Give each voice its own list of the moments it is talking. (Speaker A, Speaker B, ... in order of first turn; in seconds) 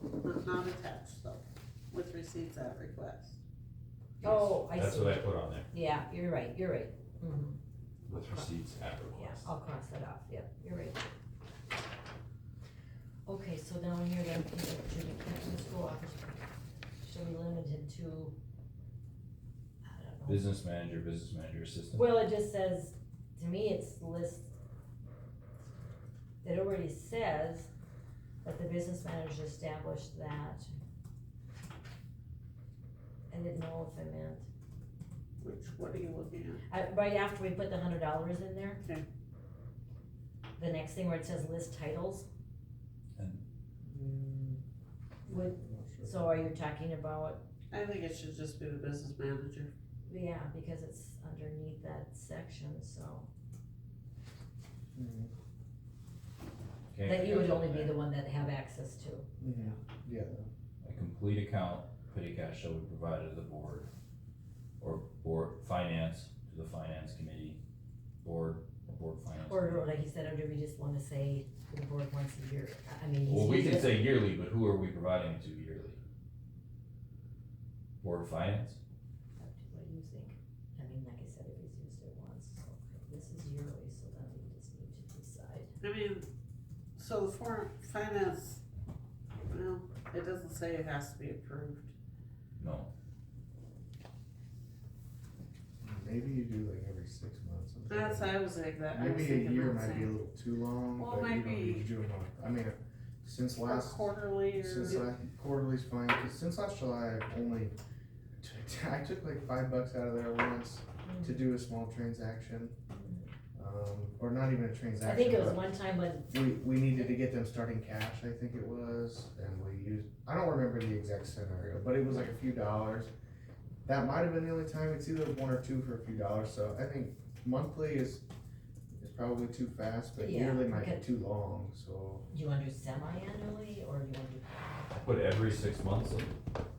Speaker A: 0.2-3.4, 35.4-36.6, 47.7-49.7, 85.8-86.3, 87.0-88.6, 89.5-91.9, 97.9-100.2, 101.0-101.8, 103.6-105.1
Speaker B: 4.2-5.7, 8.1-9.5, 20.3-22.1, 43.2-43.4, 56.9-58.0, 60.8-63.9, 64.8-67.6, 68.2-69.9, 73.3-76.0, 78.0-78.8, 92.6-92.9, 134.9-136.3
Speaker C: 4.2-7.6, 9.1-11.1, 13.2-16.4, 17.0-18.3, 19.8-20.5, 21.9-24.5, 26.4-27.7, 28.4-30.7, 33.3-34.5, 36.7-38.8, 40.6-42.3, 45.2-47.4, 50.0-53.3, 57.0-59.3, 69.5-74.1, 79.4-85.7, 111.0-111.4, 112.9-113.3, 115.0-116.5, 130.2-131.0, 132.3-134.6
Speaker D: 43.9-44.5, 45.3-46.5, 54.9-55.3, 59.4-60.5, 95.8-107.8, 108.4-112.8, 113.5-115.7, 116.3-123.1, 123.8-128.2, 128.9-132.3